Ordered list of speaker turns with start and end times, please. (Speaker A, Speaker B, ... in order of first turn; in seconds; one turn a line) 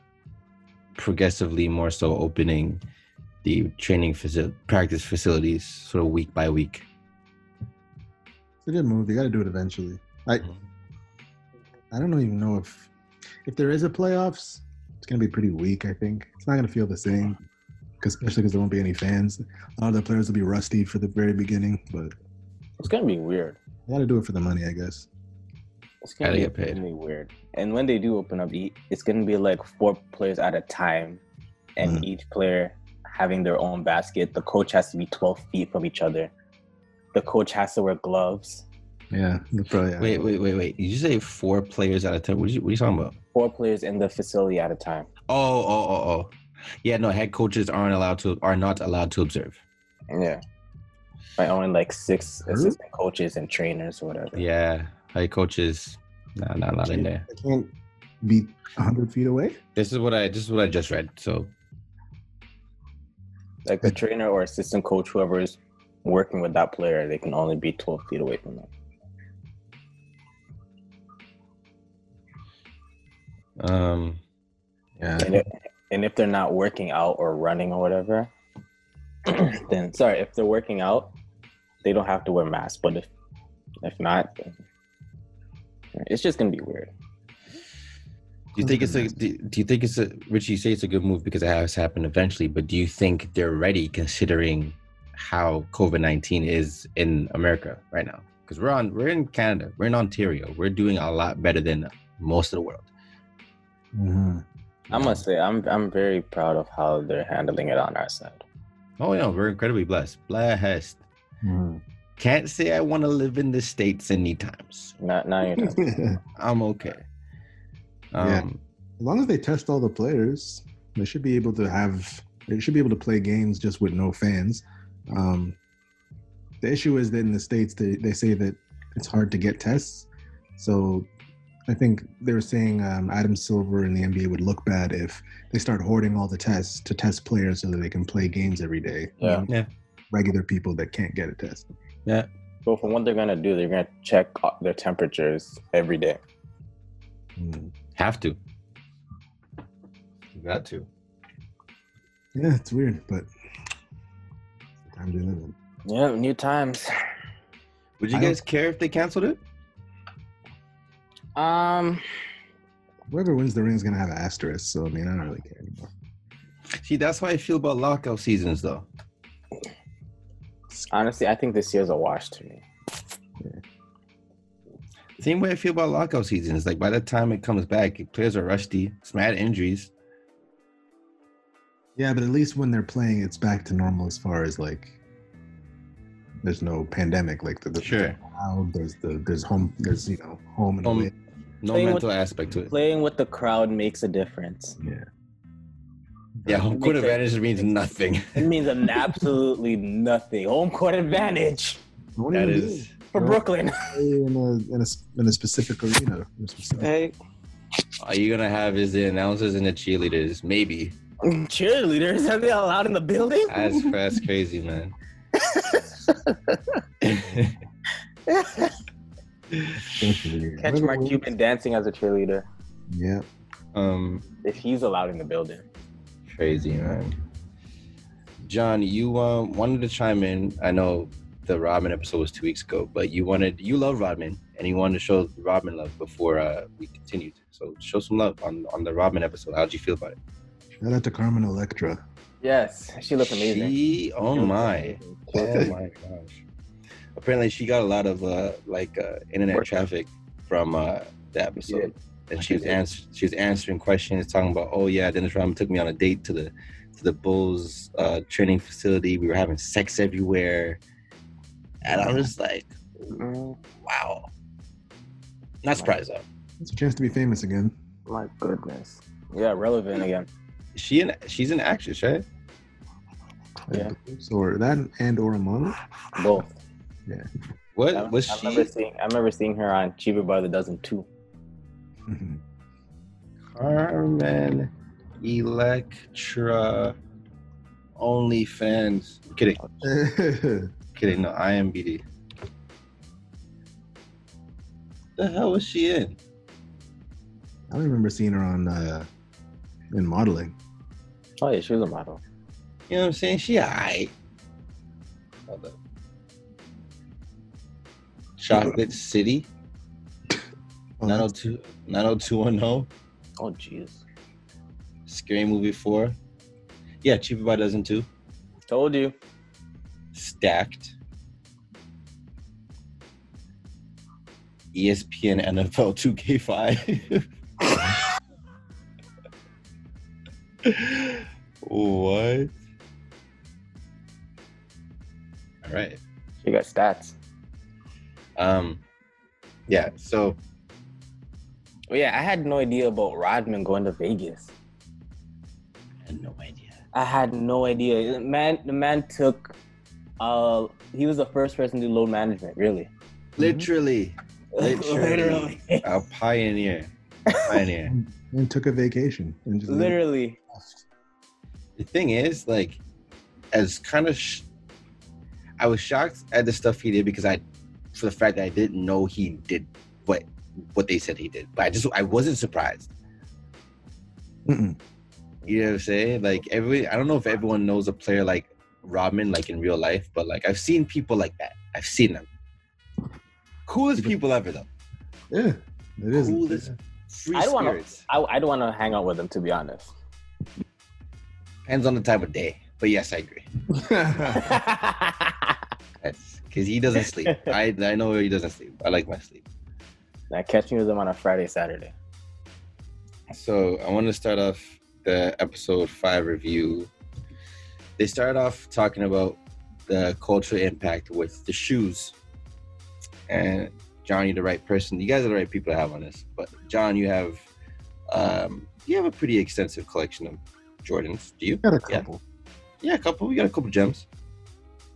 Speaker A: 0.9-2.8
Speaker A: 3.4-6.9
Speaker B: 8.6-10.5
Speaker B: 11.9-12.9
Speaker B: 13.4-17.4
Speaker B: 18.0-22.1
Speaker C: 22.8-23.6
Speaker B: 23.9-25.1
Speaker C: 26.0-31.2
Speaker A: 26.2-26.8
Speaker C: 31.8-36.3
Speaker B: 31.8-32.1
Speaker C: 37.1-38.6
Speaker B: 39.1-40.3
Speaker A: 40.0-43.2
Speaker C: 43.3-45.1
Speaker A: 45.3-49.6
Speaker C: 50.1-50.4
Speaker C: 51.4-54.4
Speaker B: 52.5-52.8
Speaker A: 54.3-57.2
Speaker B: 56.9-57.7
Speaker B: 58.2-59.6
Speaker A: 59.8-61.5
Speaker C: 63.6-68.7
Speaker A: 73.6-74.2
Speaker B: 75.0-75.4
Speaker C: 75.2-78.3
Speaker C: 79.2-81.1
Speaker C: 81.8-83.1
Speaker C: 83.8-84.6
Speaker C: 86.0-86.9
Speaker A: 88.5-102.9
Speaker B: 88.6-89.2
Speaker B: 103.9-104.4
Speaker A: 104.9-105.2
Speaker C: 104.9-108.4
Speaker A: 109.0-111.0
Speaker B: 111.4-111.8
Speaker A: 112.2-114.9
Speaker C: 115.0-115.8
Speaker B: 115.5-116.2
Speaker A: 116.4-117.1
Speaker A: 118.1-118.6
Speaker B: 118.2-118.4
Speaker B: 119.0-125.6
Speaker B: 126.6-131.1
Speaker B: 131.7-139.5
Speaker C: 139.2-139.4
Speaker B: 140.1-141.7
Speaker C: 142.7-146.2
Speaker B: 147.4-147.7
Speaker A: 147.9-148.4
Speaker A: 150.3-150.9
Speaker B: 152.3-153.3
Speaker B: 154.8-155.6
Speaker C: 155.8-157.0
Speaker A: 158.0-159.4
Speaker B: 158.1-158.4
Speaker C: 161.3-162.0
Speaker B: 163.1-165.9
Speaker A: 166.8-168.9
Speaker C: 170.8-172.6
Speaker A: 175.2-179.9
Speaker B: 181.9-184.9
Speaker B: 186.4-191.1
Speaker A: 187.8-188.2
Speaker A: 190.8-191.1
Speaker A: 191.6-192.7
Speaker C: 191.7-192.1
Speaker C: 192.7-194.8
Speaker B: 194.8-195.1
Speaker B: 196.4-196.7
Speaker A: 196.4-198.4
Speaker C: 196.7-197.2
Speaker C: 198.3-201.8
Speaker B: 202.2-206.9
Speaker A: 202.3-202.9
Speaker C: 203.1-203.9
Speaker C: 206.8-207.1
Speaker A: 208.0-210.9
Speaker C: 211.2-213.9
Speaker A: 213.5-214.9
Speaker C: 215.3-216.6
Speaker A: 217.0-217.6
Speaker C: 218.3-218.8
Speaker B: 219.9-221.3
Speaker C: 220.6-222.5
Speaker B: 222.9-223.2
Speaker A: 223.7-224.2
Speaker C: 224.4-225.7
Speaker A: 226.3-227.1
Speaker A: 228.4-240.2
Speaker B: 240.8-242.0
Speaker C: 242.4-243.7
Speaker A: 243.2-246.4
Speaker C: 244.3-245.7
Speaker B: 245.3-245.7
Speaker A: 247.2-260.8
Speaker C: 251.6-251.9
Speaker C: 252.4-252.8
Speaker A: 261.8-262.7
Speaker C: 263.1-263.6
Speaker A: 263.8-264.3
Speaker A: 265.6-266.2
Speaker B: 266.6-267.7
Speaker C: 268.1-270.3
Speaker A: 270.7-272.2
Speaker B: 273.7-275.8
Speaker C: 276.1-276.6
Speaker A: 277.8-278.7
Speaker C: 277.9-281.1
Speaker B: 282.1-282.4
Speaker A: 283.5-286.9
Speaker A: 288.0-289.6
Speaker B: 289.8-290.7
Speaker A: 290.9-292.0
Speaker A: 295.2-296.2
Speaker B: 297.7-299.1
Speaker B: 299.9-300.5
Speaker C: 301.4-302.2
Speaker A: 302.9-304.1
Speaker A: 305.5-305.8
Speaker A: 308.4-309.5
Speaker B: 311.0-311.3
Speaker A: 311.0-312.9
Speaker C: 313.4-314.0
Speaker A: 315.1-316.1
Speaker A: 317.0-318.1
Speaker C: 318.7-319.1
Speaker A: 320.1-320.9
Speaker A: 324.7-327.2
Speaker A: 330.6-332.5
Speaker A: 335.6-336.0
Speaker C: 336.4-337.1
Speaker A: 338.4-338.8
Speaker A: 339.7-340.4
Speaker C: 341.9-344.5
Speaker A: 346.1-346.8
Speaker C: 346.9-349.5
Speaker C: 350.2-352.9
Speaker A: 353.4-357.9
Speaker B: 353.4-353.7
Speaker C: 354.6-355.9
Speaker C: 357.3-357.6
Speaker B: 357.9-360.0
Speaker C: 359.7-360.4
Speaker A: 361.8-362.8
Speaker A: 363.5-364.4
Speaker A: 365.6-367.4
Speaker A: 367.9-372.9
Speaker B: 374.5-374.8
Speaker A: 375.4-382.3
Speaker A: 383.7-384.7
Speaker B: 385.3-386.7
Speaker A: 386.1-388.0
Speaker C: 387.3-389.9
Speaker A: 391.6-393.5
Speaker B: 393.7-394.6
Speaker C: 394.4-395.5
Speaker A: 396.0-399.4
Speaker C: 397.2-397.5
Speaker C: 400.3-401.9
Speaker A: 403.3-406.9
Speaker A: 408.0-412.1
Speaker A: 413.3-417.4
Speaker A: 418.1-422.1
Speaker B: 421.6-422.2
Speaker A: 422.8-424.1